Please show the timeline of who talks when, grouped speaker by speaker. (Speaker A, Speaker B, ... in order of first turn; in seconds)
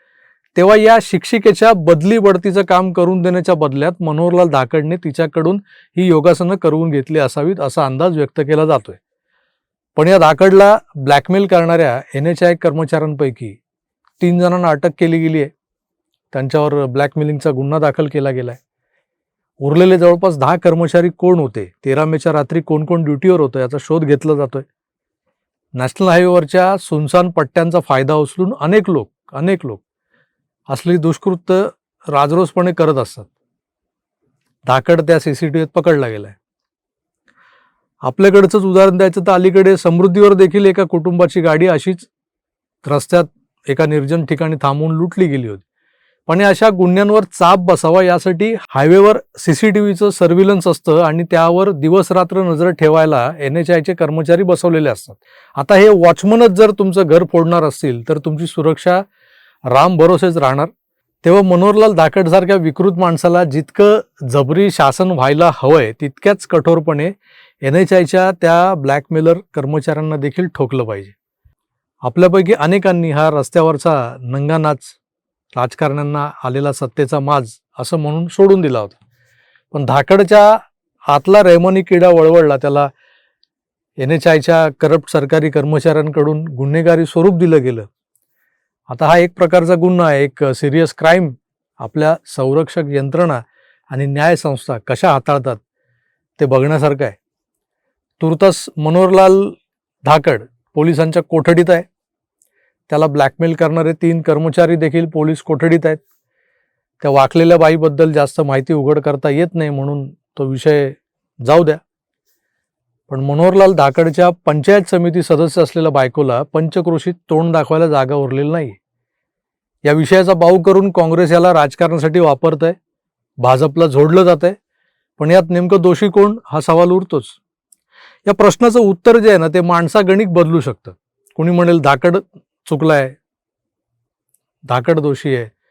Speaker A: 0.5-9.0, 9.9-13.6, 14.2-15.5, 16.3-18.6, 19.6-24.6, 25.8-29.8, 30.7-33.3, 34.6-36.4, 38.0-42.1, 42.8-45.6, 46.3-59.0, 59.7-60.7, 61.2-71.1, 72.0-75.0, 75.5-79.0, 79.7-82.9, 84.0-87.9, 88.9-95.6, 96.4-97.2, 98.2-101.9, 102.9-106.0, 107.0-111.8, 113.1-118.8, 119.8-122.8, 123.4-124.5, 125.2-127.4, 128.2-133.2, 134.7-135.5